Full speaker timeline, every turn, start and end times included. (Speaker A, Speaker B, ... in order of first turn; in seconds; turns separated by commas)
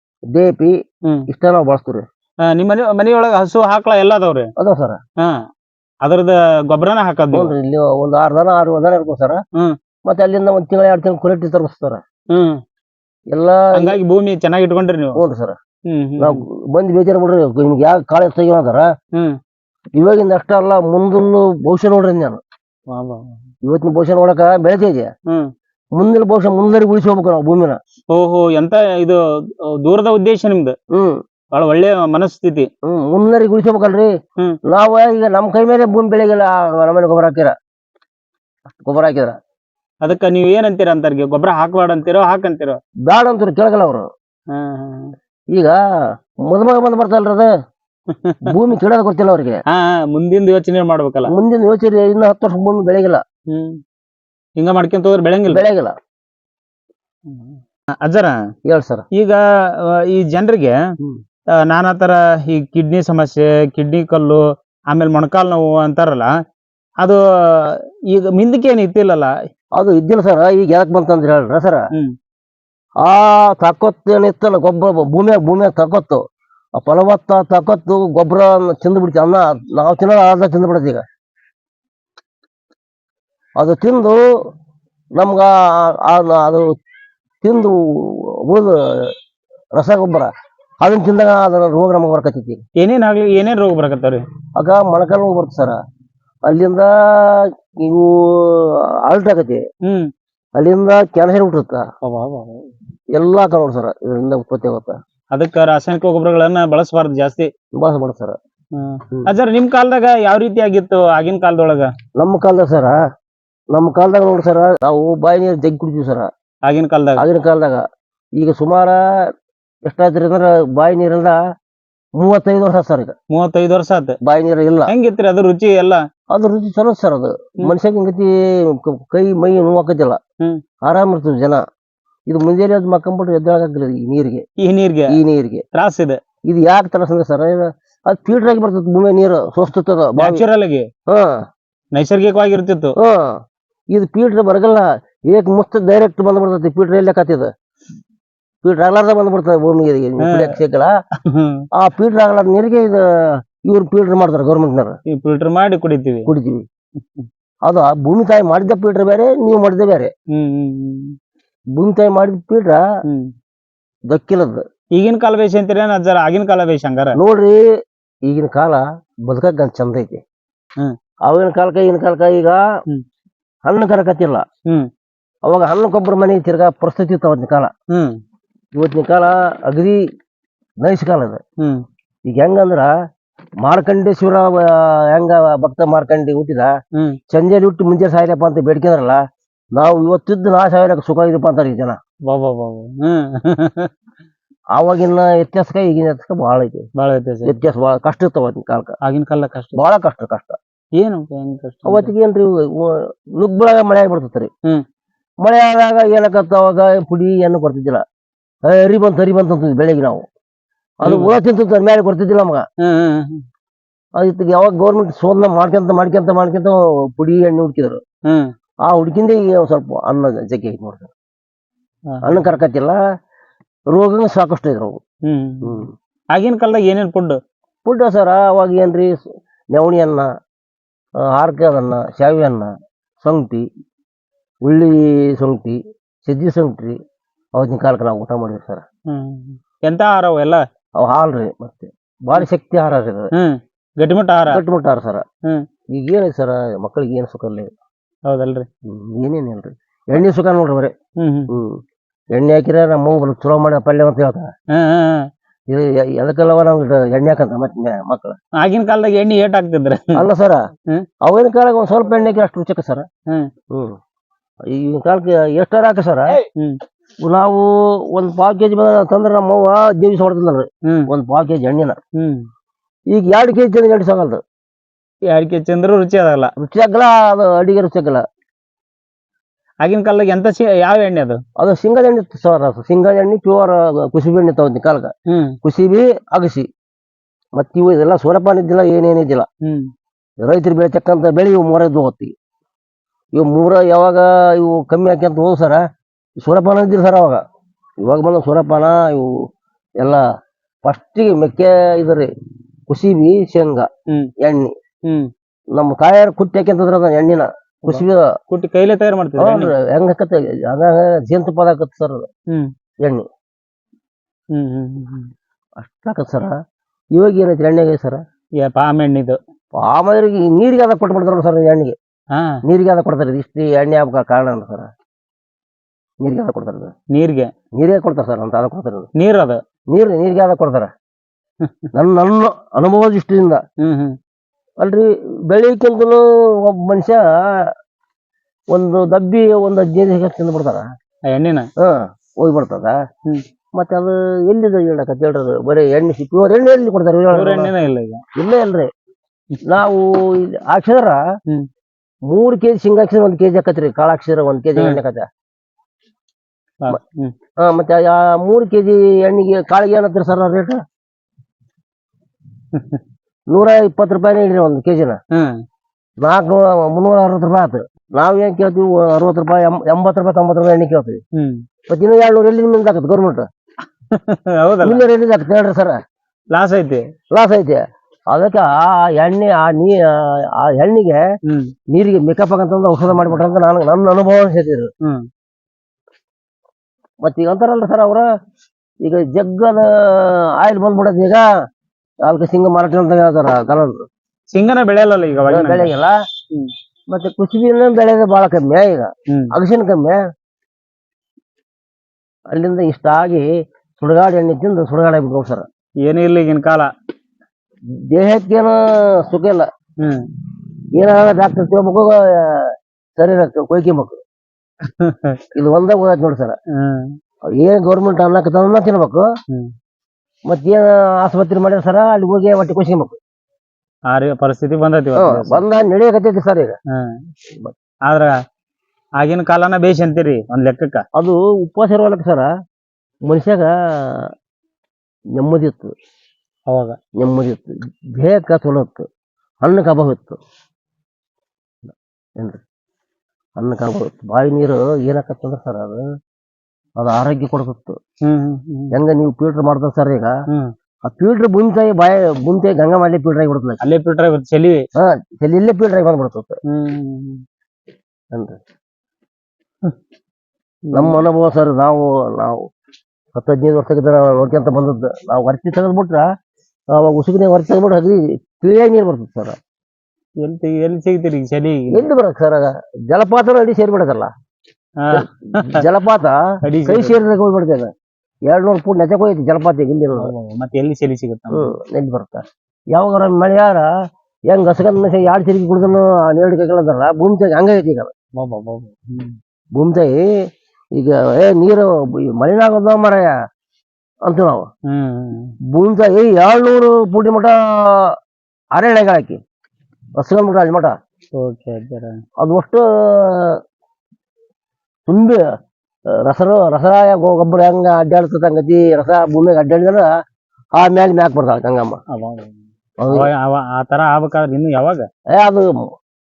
Speaker A: 0.3-0.7, Speaker A: 1.3-2.1, Speaker B: 2.5-4.5, Speaker A: 4.6-5.0, Speaker B: 5.2-5.5, Speaker B: 6.0-7.5, Speaker A: 7.3-9.4, Speaker A: 10.1-12.0, Speaker B: 12.3-12.6, Speaker A: 13.3-14.0, Speaker B: 13.8-15.2, Speaker A: 15.2-15.6, Speaker B: 15.9-16.4, Speaker A: 16.2-18.9, Speaker A: 20.0-22.4, Speaker B: 22.9-23.4, Speaker A: 23.6-25.1, Speaker A: 26.0-27.8, Speaker B: 28.1-30.8, Speaker A: 30.9-31.2, Speaker B: 31.5-32.7, Speaker A: 32.9-34.1, Speaker A: 34.7-37.5, Speaker A: 38.8-39.4, Speaker B: 40.0-42.8, Speaker A: 43.1-44.1, Speaker B: 44.5-45.1, Speaker A: 45.5-45.8, Speaker A: 46.4-47.5, Speaker B: 48.1-48.5, Speaker A: 48.4-49.6, Speaker B: 49.7-51.3, Speaker A: 51.3-53.2, Speaker B: 53.5-53.8, Speaker B: 54.6-55.6, Speaker A: 55.5-55.9, Speaker B: 57.3-58.4, Speaker A: 58.7-59.0, Speaker B: 59.1-60.8, Speaker B: 61.6-66.3, Speaker B: 67.0-69.3, Speaker A: 69.8-71.8, Speaker A: 73.0-76.2, Speaker A: 76.8-81.0, Speaker A: 83.6-84.2, Speaker A: 85.2-86.7, Speaker A: 87.4-89.1, Speaker A: 89.8-90.3, Speaker A: 90.8-92.6, Speaker B: 92.8-94.2, Speaker A: 94.6-95.8, Speaker A: 96.5-99.6, Speaker B: 99.8-100.1, Speaker A: 100.6-101.9, Speaker B: 102.0-102.7, Speaker A: 103.1-105.0, Speaker B: 105.3-107.5, Speaker A: 107.8-108.4, Speaker B: 108.8-111.9, Speaker A: 112.2-113.0, Speaker A: 113.7-116.3, Speaker B: 116.7-117.2, Speaker A: 117.2-117.8, Speaker A: 118.4-119.0, Speaker A: 119.9-121.4, Speaker A: 122.2-123.2, Speaker B: 123.3-124.2, Speaker A: 124.2-124.9, Speaker B: 124.9-126.0, Speaker A: 126.3-130.2, Speaker A: 130.8-131.6, Speaker A: 132.3-134.4, Speaker B: 134.6-135.1, Speaker A: 135.1-135.6, Speaker B: 135.7-136.2, Speaker A: 136.5-140.4, Speaker B: 140.2-140.9, Speaker A: 141.1-141.4, Speaker B: 141.9-142.9, Speaker A: 143.0-143.4, Speaker A: 143.9-147.5, Speaker A: 148.6-150.9, Speaker B: 150.2-150.6, Speaker B: 151.3-151.6, Speaker A: 151.8-153.1, Speaker A: 153.6-155.0, Speaker B: 155.1-156.3, Speaker A: 156.3-156.6, Speaker A: 157.7-160.1, Speaker B: 160.3-161.2, Speaker A: 161.8-162.8, Speaker A: 164.1-164.6, Speaker B: 164.9-167.2, Speaker A: 167.2-167.6, Speaker A: 168.3-170.2, Speaker A: 171.3-172.6, Speaker A: 173.7-174.4, Speaker A: 175.5-177.7, Speaker B: 177.9-178.2, Speaker A: 178.8-180.0, Speaker A: 180.8-181.4, Speaker A: 182.3-182.9, Speaker A: 183.6-186.7, Speaker A: 187.3-189.2, Speaker A: 189.7-192.0, Speaker B: 192.3-193.9, Speaker A: 194.7-196.9, Speaker B: 197.0-197.6, Speaker A: 197.5-198.9, Speaker B: 199.0-199.8, Speaker A: 199.8-200.6, Speaker B: 201.0-202.1, Speaker A: 201.8-204.5, Speaker A: 205.4-208.0, Speaker A: 208.7-210.2, Speaker A: 211.0-212.6, Speaker B: 211.1-211.3, Speaker B: 212.8-213.4, Speaker A: 214.2-218.0, Speaker A: 218.9-221.1, Speaker B: 222.1-222.4, Speaker A: 222.2-223.0, Speaker A: 223.9-225.0, Speaker B: 225.3-227.4, Speaker A: 225.7-225.9, Speaker A: 227.8-229.2, Speaker A: 229.7-230.3, Speaker A: 231.3-233.7, Speaker A: 234.6-237.0, Speaker A: 237.6-238.8, Speaker B: 239.1-240.6, Speaker A: 241.0-243.3, Speaker B: 243.3-244.6, Speaker A: 244.5-245.2, Speaker A: 245.9-247.7, Speaker B: 248.3-248.7, Speaker A: 248.9-250.9, Speaker B: 251.2-251.5, Speaker A: 251.5-251.8, Speaker A: 252.3-254.5, Speaker B: 254.7-255.3, Speaker A: 255.7-258.4, Speaker B: 258.6-260.2, Speaker A: 260.1-260.6, Speaker A: 261.2-263.1, Speaker A: 264.7-266.4, Speaker B: 266.4-266.8, Speaker A: 267.2-272.0, Speaker B: 272.2-272.5, Speaker A: 273.1-274.4, Speaker B: 275.3-276.5, Speaker A: 276.6-278.2, Speaker B: 279.8-281.4, Speaker A: 281.6-285.1, Speaker B: 285.3-285.6, Speaker A: 285.6-286.7, Speaker A: 287.6-289.5, Speaker A: 290.4-292.3, Speaker A: 293.4-295.8, Speaker A: 296.4-297.4, Speaker A: 298.0-299.4, Speaker A: 300.9-302.3, Speaker A: 302.9-303.9, Speaker A: 304.4-304.7, Speaker B: 305.1-305.3, Speaker A: 305.8-308.2, Speaker B: 307.9-309.7, Speaker A: 309.4-312.3, Speaker B: 314.5-315.3, Speaker A: 315.8-316.5, Speaker A: 317.2-318.2, Speaker B: 318.6-319.4, Speaker A: 319.8-321.9, Speaker B: 322.3-322.6, Speaker A: 322.7-324.9, Speaker A: 326.2-326.9, Speaker B: 327.1-327.5, Speaker A: 327.8-329.1, Speaker B: 329.2-329.6, Speaker A: 329.9-330.9, Speaker A: 331.9-333.6, Speaker B: 333.8-334.2, Speaker A: 334.8-337.7, Speaker A: 338.7-340.9, Speaker B: 341.3-341.7, Speaker A: 341.8-343.0, Speaker A: 343.8-347.7, Speaker B: 347.3-348.2, Speaker A: 348.4-348.9, Speaker A: 349.7-351.2, Speaker A: 352.3-355.3, Speaker B: 356.8-357.3, Speaker A: 357.6-360.8, Speaker B: 362.7-363.0, Speaker A: 363.5-365.2, Speaker B: 365.3-365.6, Speaker A: 366.2-371.2, Speaker B: 371.4-371.6, Speaker A: 371.9-373.4, Speaker B: 374.1-375.1, Speaker A: 374.8-376.0, Speaker B: 376.5-377.1, Speaker A: 377.3-381.3, Speaker B: 381.5-381.7, Speaker A: 381.9-384.9, Speaker A: 387.2-388.3, Speaker A: 389.0-391.4, Speaker A: 392.2-394.0, Speaker B: 394.5-395.9, Speaker A: 395.5-396.1, Speaker A: 397.1-400.2, Speaker A: 402.5-403.5, Speaker A: 404.0-405.7, Speaker B: 406.0-406.9, Speaker A: 408.1-409.7, Speaker B: 410.0-410.3, Speaker A: 411.0-414.2, Speaker B: 414.8-415.4, Speaker A: 415.6-416.6, Speaker B: 416.8-417.2, Speaker A: 417.6-419.2, Speaker A: 420.5-423.2, Speaker B: 424.1-425.6, Speaker A: 425.2-426.8, Speaker B: 426.9-427.2, Speaker B: 428.1-428.4, Speaker B: 429.2-431.0, Speaker A: 431.2-432.5, Speaker A: 433.3-434.3, Speaker A: 435.4-435.9, Speaker B: 436.7-437.0, Speaker A: 437.2-439.1, Speaker A: 439.6-440.4, Speaker A: 441.9-442.6, Speaker A: 443.6-446.0, Speaker A: 447.0-448.0, Speaker B: 448.2-449.0, Speaker A: 448.9-450.3, Speaker A: 451.1-453.8, Speaker B: 453.8-454.9, Speaker A: 455.0-456.6, Speaker B: 456.7-457.4, Speaker B: 460.9-461.2, Speaker A: 460.9-462.7, Speaker A: 463.3-466.2, Speaker A: 466.9-469.6, Speaker B: 470.4-472.1, Speaker A: 471.9-474.3, Speaker B: 475.0-475.8, Speaker A: 475.1-477.9, Speaker B: 476.7-477.2, Speaker A: 478.5-480.3, Speaker B: 480.2-481.7, Speaker A: 481.5-483.9, Speaker A: 484.5-488.1, Speaker B: 488.4-489.4, Speaker A: 489.8-490.2, Speaker A: 491.0-493.3, Speaker A: 494.3-494.6, Speaker B: 494.9-495.5, Speaker A: 495.7-498.2, Speaker A: 498.8-499.4, Speaker A: 500.2-500.9, Speaker B: 501.4-502.2, Speaker A: 502.4-503.6, Speaker A: 505.1-505.4, Speaker A: 506.3-510.1, Speaker A: 510.8-512.0, Speaker B: 512.1-515.0, Speaker A: 513.0-513.3, Speaker A: 515.3-515.9